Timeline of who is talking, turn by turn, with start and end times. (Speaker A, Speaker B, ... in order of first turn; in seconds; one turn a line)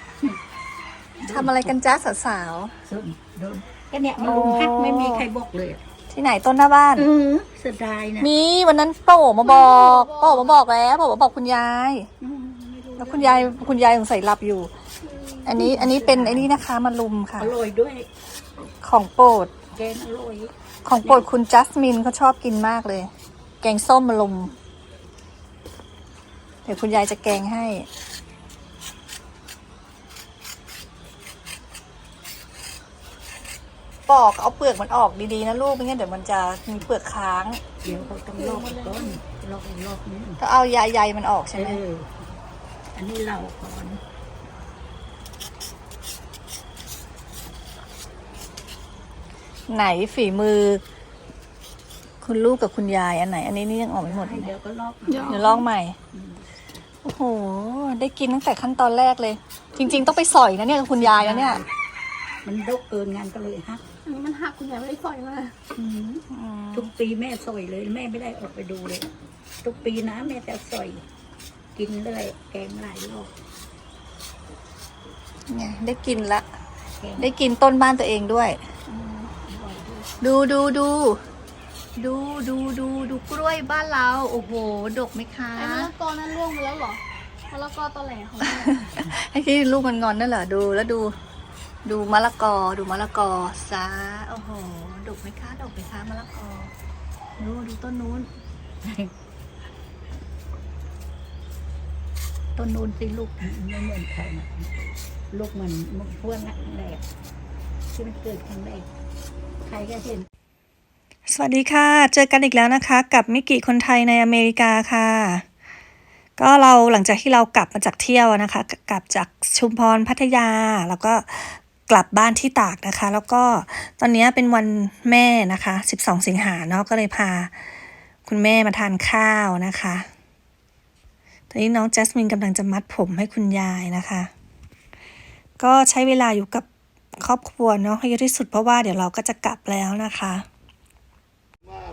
Speaker A: 1.2-1.8
Speaker B: 1.3-2.7
Speaker A: 2.9-5.8
Speaker B: 4.2-5.2
Speaker B: 6.1-7.1
Speaker A: 6.9-8.3
Speaker B: 8.2-12.1
Speaker C: 9.4-10.6
Speaker A: 12.2-13.7
Speaker B: 13.0-14.7
Speaker B: 15.4-17.5
Speaker A: 15.5-16.5
Speaker A: 17.4-18.1
Speaker B: 18.8-19.5
Speaker A: 19.7-21.2
Speaker B: 20.8-23.1
Speaker B: 23.6-24.5
Speaker B: 26.6-27.9
Speaker B: 34.1-37.6
Speaker A: 37.8-40.4
Speaker C: 38.4-39.1
Speaker B: 40.4-41.8
Speaker A: 41.5-42.1
Speaker A: 42.9-44.0
Speaker B: 49.7-50.8
Speaker B: 52.2-54.5
Speaker A: 54.0-55.5
Speaker C: 55.1-55.6
Speaker B: 55.2-56.0
Speaker A: 56.1-56.4
Speaker B: 57.0-61.6
Speaker A: 60.9-61.6
Speaker A: 62.4-63.8
Speaker C: 64.0-65.5
Speaker A: 65.7-69.1
Speaker B: 66.3-66.9
Speaker A: 69.6-71.0
Speaker A: 71.7-73.3
Speaker B: 75.5-76.4
Speaker A: 77.0-77.3
Speaker B: 77.2-78.6
Speaker A: 79.0-80.1
Speaker B: 80.2-81.2
Speaker B: 82.0-85.9
Speaker C: 85.6-88.8
Speaker B: 88.4-91.1
Speaker B: 91.8-96.7
Speaker B: 97.4-98.3
Speaker A: 98.8-99.1
Speaker A: 102.5-104.7
Speaker A: 105.3-107.0
Speaker A: 107.9-108.8
Speaker A: 109.6-110.3
Speaker B: 111.3-115.4
Speaker B: 116.4-127.5
Speaker B: 128.2-130.1
Speaker B: 131.5-134.3
Speaker B: 135.6-136.7
Speaker B: 137.2-140.4